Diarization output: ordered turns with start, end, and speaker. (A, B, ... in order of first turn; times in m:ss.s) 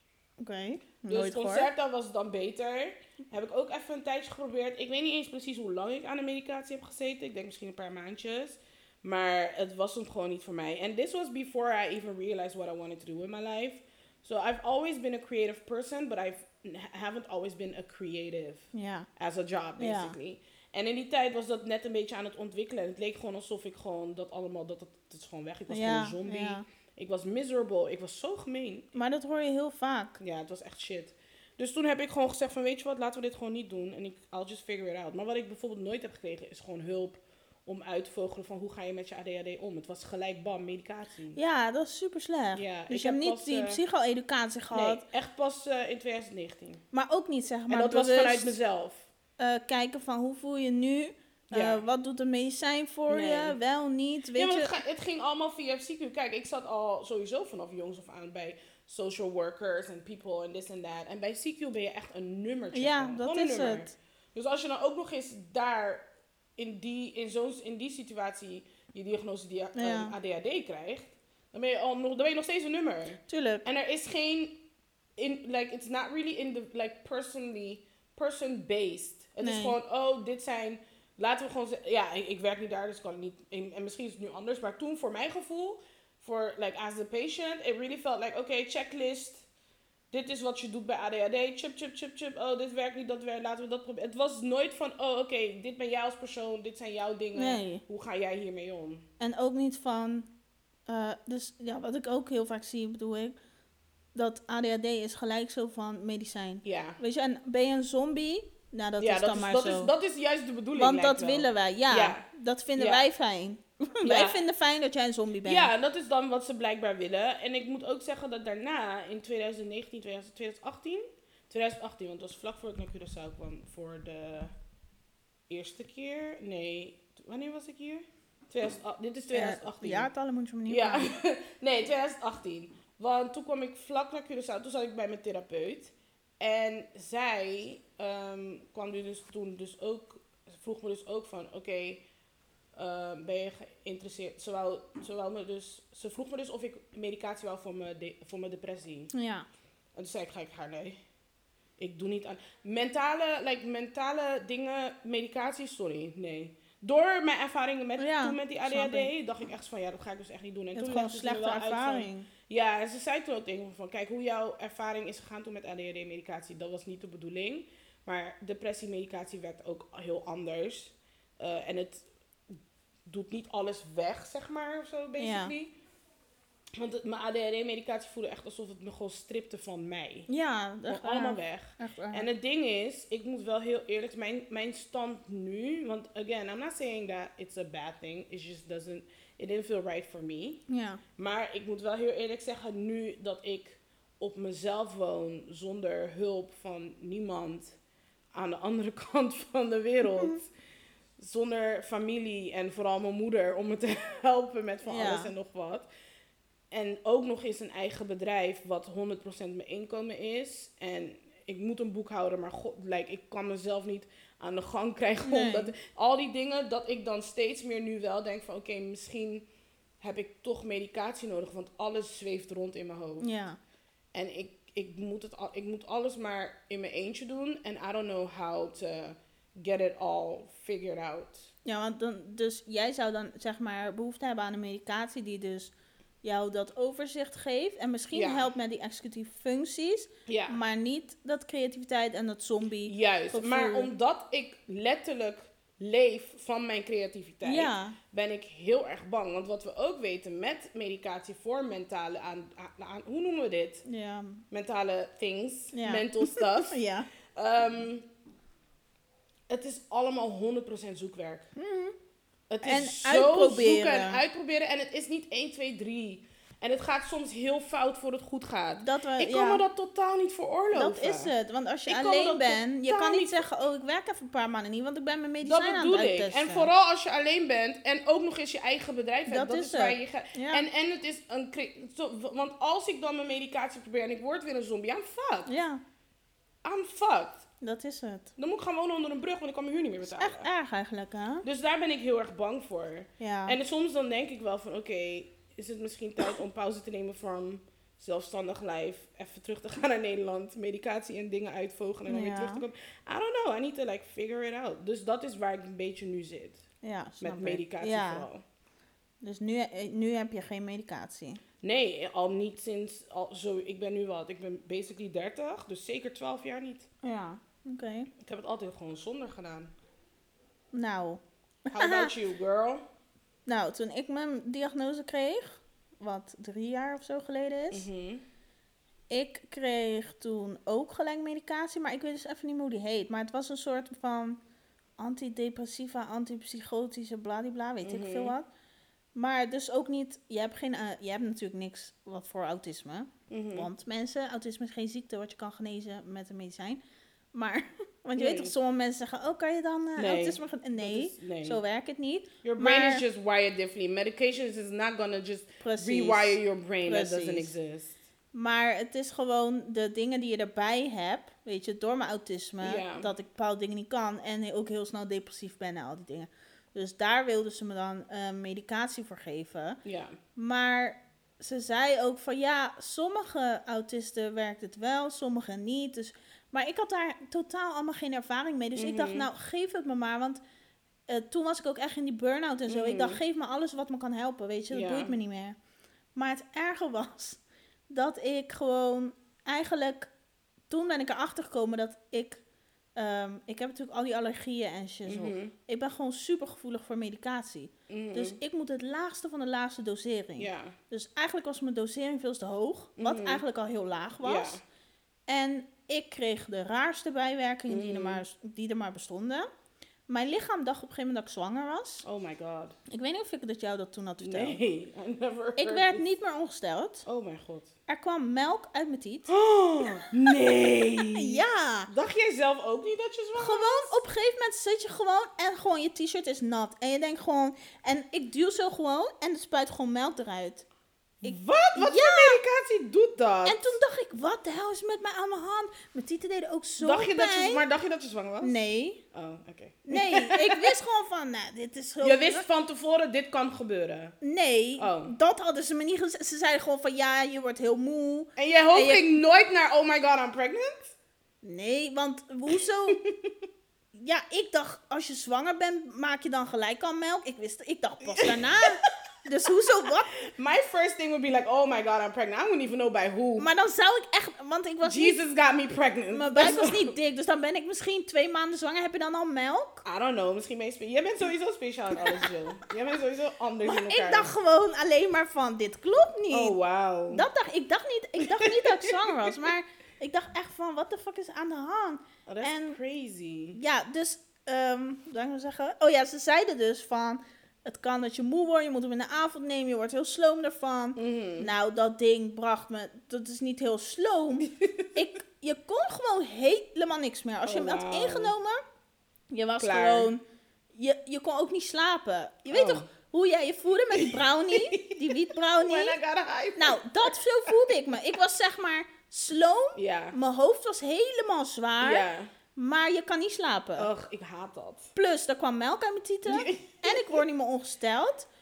0:00.4-0:01.7 A
0:01.1-0:28.9 B
0:18.7-0:19.1 A
0:19.8-0:20.2 A
0:25.7-0:26.6 A
0:29.0-0:30.2 A
0:30.2-0:41.4 B
0:41.4-0:45.0 A
0:42.6-0:43.8 B
0:44.7-0:46.8 B
0:46.9-0:48.6 A
0:47.7-0:49.1 B
0:49.4-0:54.7 A
0:51.5-0:51.8 B
0:53.1-0:53.6 B
0:54.4-1:14.6 B
1:02.7-1:03.9 A
1:09.8-1:10.1 A
1:13.3-1:13.6 A
1:15.2-1:29.4 B
1:19.4-1:19.8 A
1:30.1-1:39.1 B
1:37.4-1:37.8 A
1:39.2-1:40.3 A
1:40.9-1:43.4 A
1:44.2-1:49.9 A
1:46.6-1:47.0 B
1:49.0-1:52.3 B
1:50.8-1:55.7 A
1:52.8-1:53.0 B
1:54.0-1:54.4 B
1:55.4-2:04.5 B
2:05.5-2:10.1 B
2:09.3-2:11.1 A
2:10.7-2:22.0 B
2:22.8-2:29.1 B
2:29.1-2:29.5 A
2:30.0-2:31.0 B
2:31.8-2:55.7 B
2:38.0-2:39.1 A
2:40.8-2:42.3 A
2:55.2-2:55.5 A
2:56.8-3:00.3 B
3:00.3-3:02.3 A
3:00.9-3:10.6 B
3:10.7-3:11.0 A
3:11.2-3:17.8 B
3:18.3-3:20.5 B
3:20.1-3:20.4 A
3:21.2-3:25.9 B
3:24.9-3:25.3 A
3:26.7-3:39.5 B
3:35.2-3:35.8 A
3:40.0-3:43.3 B
3:43.2-3:43.6 A
3:44.1-3:51.5 B
3:51.6-4:03.9 A
3:58.1-3:58.5 B
4:00.3-4:00.6 B
4:02.9-4:13.8 B
4:07.4-4:08.0 A
4:13.8-4:14.4 A
4:14.5-4:16.8 B
4:15.7-4:17.1 A
4:17.3-4:18.1 B
4:19.5-4:21.5 B
4:21.6-4:22.0 A
4:22.5-4:31.3 B
4:22.6-4:24.2 A
4:28.8-4:29.6 A
4:30.7-4:36.7 A
4:31.9-4:33.4 B
4:35.4-4:45.5 B
4:39.3-4:40.6 A
4:45.5-4:45.8 A
4:46.6-4:47.4 B
4:47.6-4:48.3 A
4:48.4-4:50.5 B
4:50.1-4:51.5 A
4:51.4-5:06.6 B
4:53.2-4:53.6 A
5:02.1-5:02.6 A
5:06.8-5:08.3 A
5:07.2-5:08.4 B
5:09.2-5:11.4 A
5:11.6-5:16.9 B
5:17.0-5:18.1 A
5:18.2-5:19.7 B
5:20.7-5:22.1 A
5:21.7-5:22.8 B
5:23.5-5:27.9 A
5:27.7-5:28.2 B
5:29.1-5:34.4 A
5:35.0-5:38.5 A
5:37.8-5:38.3 B
5:39.2-5:46.8 A
5:43.3-5:43.7 B
5:47.3-5:53.0 A
5:48.2-5:48.5 B
5:50.0-5:51.6 B
5:52.4-5:58.0 B
5:55.6-5:57.6 A
5:58.3-6:09.8 A
6:02.6-6:03.1 B
6:09.8-6:10.2 B
6:10.4-6:20.4 A
6:18.8-6:19.3 B
6:21.1-6:25.6 A
6:22.7-6:23.2 B
6:24.7-6:25.1 B
6:26.2-6:30.1 A
6:30.7-6:32.4 A
6:33.0-6:44.6 A
6:35.1-6:35.5 B
6:37.9-6:38.4 B
6:40.4-6:40.8 B
6:43.0-6:43.4 B
6:44.2-6:44.6 B
6:45.3-6:49.5 A
6:47.7-6:48.2 B
6:50.1-6:52.0 A
6:52.0-6:52.8 B
6:52.9-6:54.6 A
6:54.2-6:56.0 B
6:55.6-6:57.1 A
6:57.1-6:57.7 B
6:57.9-6:59.3 A
6:59.3-7:04.0 B
6:59.8-7:00.3 A
7:01.1-7:01.9 A
7:03.4-7:10.6 A
7:11.2-7:13.8 B
7:11.2-7:12.4 A
7:13.4-7:17.6 A
7:16.8-7:18.6 B
7:18.4-7:19.0 A
7:19.1-7:20.8 B
7:19.9-7:22.4 A
7:22.0-7:24.2 B
7:24.2-7:29.1 A
7:24.8-7:25.2 B
7:28.4-7:30.9 B
7:31.4-7:33.0 A
7:32.9-7:33.4 B
7:34.0-7:40.1 A
7:38.0-7:38.7 B
7:40.1-7:43.5 B
7:43.4-7:45.2 A
7:44.8-7:46.9 B
7:46.1-7:49.8 A
7:49.8-7:54.3 B
7:52.0-7:52.3 A
7:53.6-7:56.6 A
7:56.3-7:57.3 B
7:57.1-8:02.8 A
7:58.2-7:59.4 B
8:02.3-8:03.6 B
8:03.6-8:18.6 A
8:11.0-8:11.5 B
8:14.4-8:14.9 B
8:17.4-8:18.3 B
8:19.3-8:20.2 A
8:19.6-8:20.1 B
8:20.7-8:26.0 A
8:22.5-8:22.9 B
8:23.9-8:27.5 B
8:26.6-8:33.9 A
8:29.8-8:30.2 B
8:31.8-8:32.3 B
8:33.8-8:34.9 B
8:35.0-8:38.3 A
8:36.3-8:37.2 B